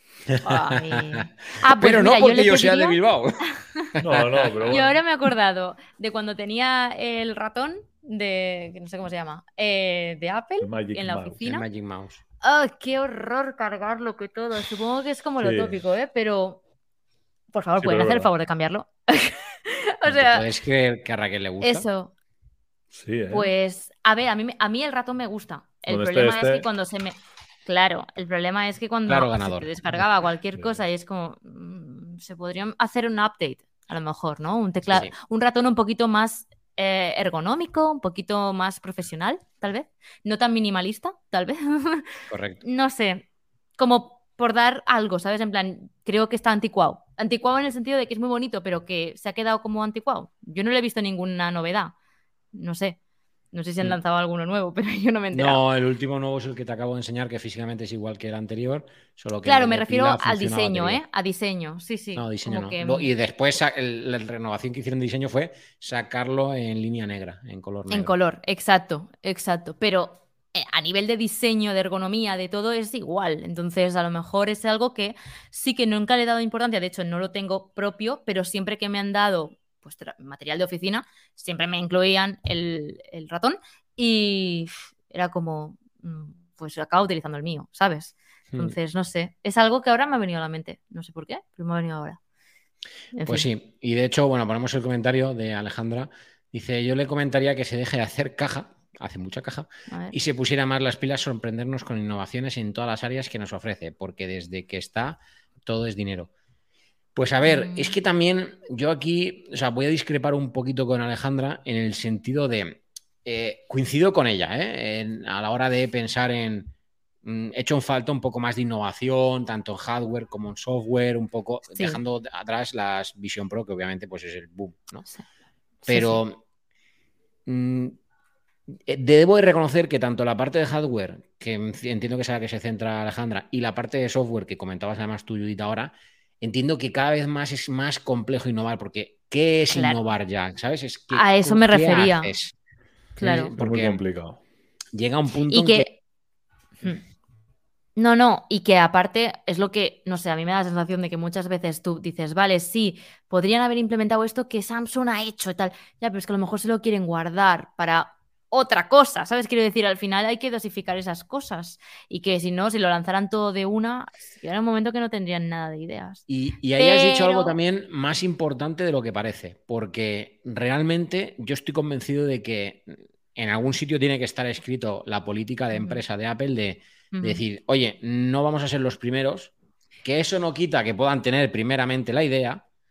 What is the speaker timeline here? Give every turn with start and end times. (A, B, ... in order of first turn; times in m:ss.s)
0:00.4-0:01.2 A
0:00.4-0:03.0 B
0:01.8-0:04.7 A
0:04.0-0:05.0 C
0:04.7-0:11.6 B
0:10.6-0:11.4 C
0:11.4-0:12.2 A
0:12.4-0:16.6 B
0:15.4-0:15.8 C
0:17.5-0:20.4 B
0:17.8-0:18.3 C
0:20.1-0:21.9 A
0:21.6-0:22.1 B
0:22.9-0:23.5 C
0:23.3-0:42.1 B
0:25.9-0:26.6 C
0:29.1-0:29.7 A
0:42.3-0:42.6 A
0:42.6-0:43.3 B
0:43.8-0:51.9 B
0:52.5-0:53.0 B
0:53.5-0:55.6 B
0:55.3-1:01.0 A
0:59.4-1:03.1 B
1:02.1-1:08.1 A
1:07.9-1:32.2 B
1:28.5-1:28.8 A
1:33.1-1:33.5 B
1:33.3-1:46.3 A
1:39.9-1:40.1 B
1:47.1-1:56.7 A
1:47.4-1:47.9 B
1:57.2-2:05.0 A
2:01.7-2:02.0 B
2:05.8-2:06.2 B
2:05.9-2:06.4 A
2:07.4-2:08.0 A
2:08.9-2:22.5 A
2:19.7-2:20.0 B
2:21.1-2:22.3 B
2:23.2-2:23.5 B
2:23.2-2:24.4 C
2:23.2-2:24.0 A
2:24.9-2:25.9 A
2:25.5-2:25.9 B
2:28.0-2:46.2 B
2:46.3-2:59.5 A
2:46.8-2:47.6 B
2:55.7-2:56.0 B
2:57.1-2:57.4 B
3:00.0-3:02.6 A